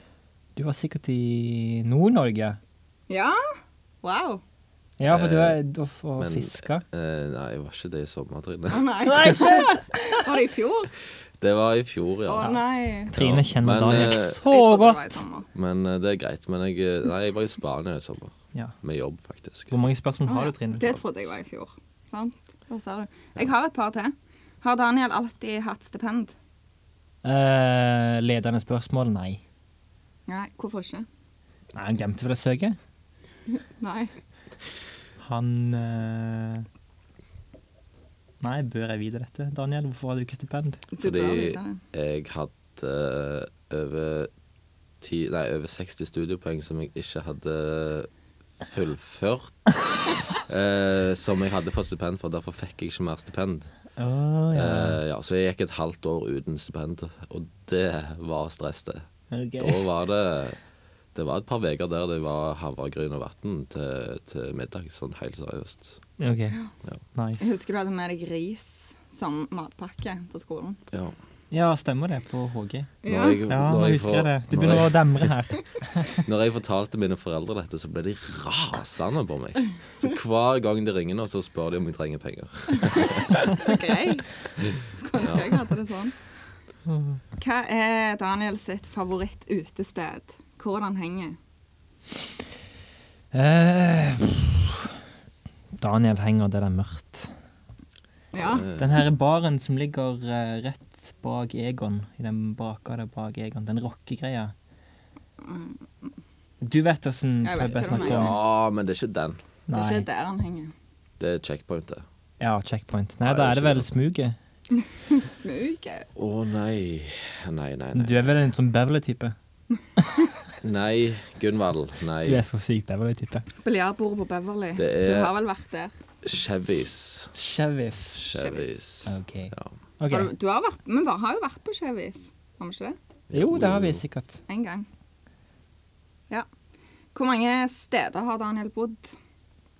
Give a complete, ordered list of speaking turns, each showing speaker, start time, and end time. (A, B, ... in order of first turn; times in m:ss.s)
0:00.6-0:02.6 A
0:03.1-0:03.4 B
0:04.0-0:04.4 B
0:05.0-0:06.8 A
0:05.1-0:05.6 C
0:06.2-0:08.9 C
0:08.7-0:10.9 B
0:09.0-0:10.3 A
0:11.4-0:12.5 C
0:12.3-0:13.1 B
0:12.4-0:15.2 A
0:13.1-0:14.4 C
0:14.5-0:15.5 B
0:15.5-0:19.8 C
0:19.7-0:20.9 A
0:20.3-0:26.4 B
0:27.2-0:29.4 A
0:30.3-0:31.1 B
0:31.8-0:32.8 A
0:33.5-0:34.1 B
0:35.2-0:36.7 A
0:38.4-0:40.8 A
0:40.9-0:41.8 B
0:41.0-0:44.3 C
0:45.0-0:48.1 C
0:48.6-0:49.6 C
0:50.4-0:53.7 C
0:54.0-0:55.0 A
0:54.5-0:59.1 C
0:59.3-0:59.9 A
0:59.6-1:00.6 C
1:01.1-1:06.0 C
1:06.2-1:06.6 A
1:07.1-1:07.5 A
1:07.4-1:10.8 B
1:11.5-1:12.9 A
1:13.0-1:13.4 B
1:13.0-1:15.3 C
1:13.5-1:16.2 A
1:16.1-1:23.4 C
1:23.0-1:26.2 B
1:24.6-1:25.5 C
1:26.9-1:27.2 A
1:27.4-1:31.4 B
1:33.3-1:34.9 A
1:35.8-1:37.3 A
1:38.3-1:38.7 B
1:38.4-1:39.0 C
1:38.8-1:44.5 A
1:45.4-1:46.1 B
1:46.6-1:48.4 A
1:47.4-1:48.4 B
1:48.0-1:49.4 C
1:49.7-1:50.0 A
1:49.7-1:50.7 B
1:51.2-1:52.0 C
1:52.4-1:54.4 A
1:53.2-1:53.9 C
1:54.7-1:56.1 B
1:56.2-1:58.3 C
1:57.9-1:59.4 A
2:00.0-2:00.3 A
2:00.6-2:02.4 C
2:02.2-2:03.5 A
2:03.6-2:05.9 B
2:04.8-2:05.3 C
2:06.2-2:07.3 C
2:07.3-2:08.2 A
2:08.1-2:09.7 C
2:08.3-2:08.8 B
2:09.0-2:10.3 A
2:10.1-2:13.0 B
2:13.3-2:14.0 C
2:13.3-2:14.4 A
2:14.5-2:14.9 B
2:17.1-2:19.2 B